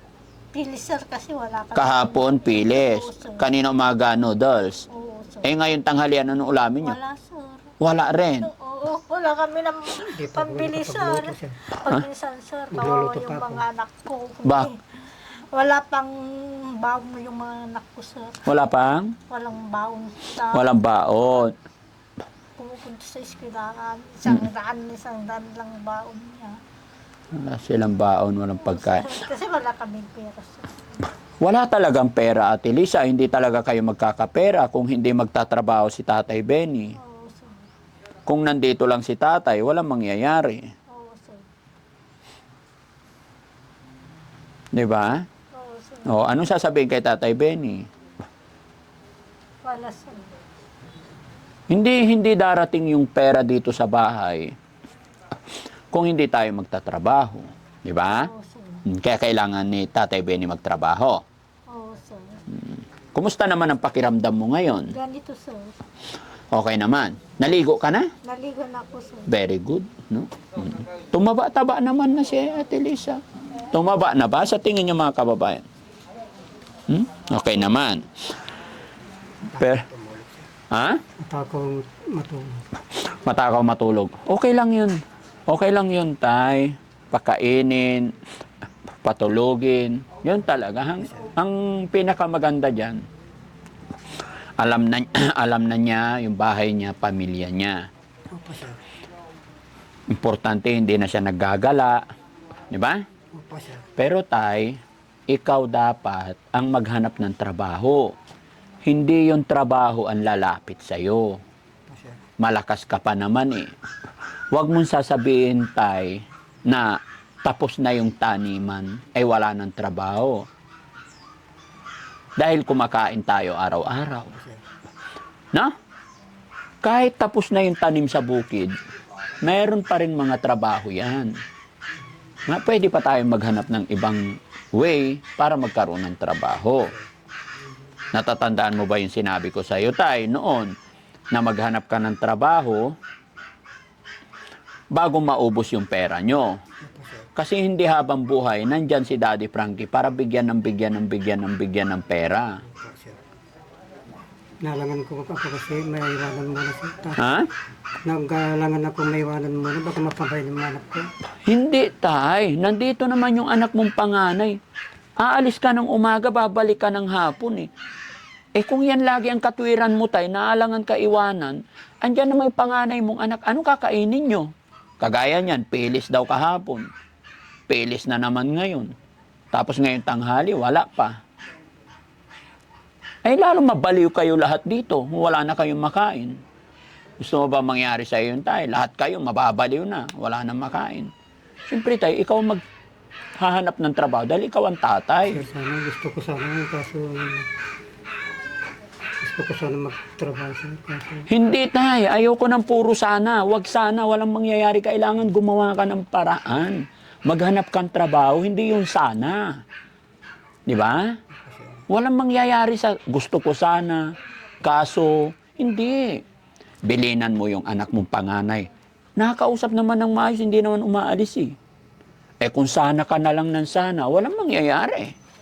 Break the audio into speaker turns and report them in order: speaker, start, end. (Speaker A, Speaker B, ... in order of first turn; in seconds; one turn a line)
Speaker A: 0.5-3.5
Speaker B: 1.7-4.9
Speaker A: 4.9-5.5
Speaker B: 5.4-7.0
Speaker A: 6.8-7.8
Speaker B: 7.8-8.5
Speaker A: 8.4-18.4
Speaker C: 10.0-11.6
Speaker C: 12.7-13.6
Speaker B: 14.4-14.7
Speaker B: 18.5-19.2
Speaker A: 19.3-20.7
Speaker B: 20.5-21.5
Speaker A: 22.6-26.6
Speaker B: 27.3-29.1
Speaker A: 28.6-31.0
Speaker B: 31.4-37.0
Speaker A: 37.0-37.7
Speaker B: 38.3-40.7
Speaker A: 40.9-41.5
Speaker B: 44.7-45.3
Speaker A: 45.5-46.1
Speaker B: 46.1-47.9
Speaker A: 49.6-50.3
Speaker B: 51.7-54.6
Speaker B: 55.9-58.3
Speaker A: 58.1-58.8
Speaker B: 58.9-61.2
Speaker A: 61.7-62.4
Speaker B: 62.5-64.9
Speaker A: 64.9-65.8
Speaker B: 66.5-68.1
Speaker A: 68.2-69.3
Speaker B: 69.3-75.7
Speaker B: 76.9-78.3
Speaker C: 79.5-80.5
Speaker B: 79.5-79.9
Speaker B: 80.7-81.0
Speaker C: 81.2-82.7
Speaker B: 83.0-88.2
Speaker B: 89.0-93.0
Speaker C: 91.1-91.3
Speaker B: 94.6-97.9
Speaker C: 98.3-98.8
Speaker B: 100.1-102.0
Speaker B: 102.7-103.0
Speaker C: 103.3-103.9
Speaker B: 104.0-104.8
Speaker B: 105.3-108.1
Speaker B: 108.8-111.4
Speaker C: 111.9-112.2
Speaker B: 112.4-113.7
Speaker B: 114.5-120.5
Speaker B: 122.4-124.3
Speaker C: 124.3-124.6
Speaker B: 126.8-128.8
Speaker B: 129.4-131.3
Speaker B: 132.5-136.9
Speaker B: 138.1-140.8
Speaker B: 141.3-142.9
Speaker B: 144.9-146.6
Speaker C: 146.8-147.3
Speaker B: 147.4-152.6
Speaker C: 152.7-153.3
Speaker C: 154.6-157.2
Speaker B: 157.2-157.5
Speaker C: 158.0-161.1
Speaker B: 161.5-164.6
Speaker B: 165.2-167.7
Speaker B: 168.6-176.9
Speaker B: 177.7-178.9
Speaker B: 179.5-181.2
Speaker B: 183.2-186.4
Speaker B: 187.2-191.1
Speaker B: 191.7-192.6
Speaker B: 193.4-195.4
Speaker C: 195.3-197.5
Speaker C: 199.2-201.3
Speaker B: 201.3-209.6
Speaker B: 210.7-211.2
Speaker C: 211.3-211.8
Speaker B: 211.9-214.1
Speaker B: 214.6-216.2
Speaker B: 216.8-221.6
Speaker B: 222.4-225.2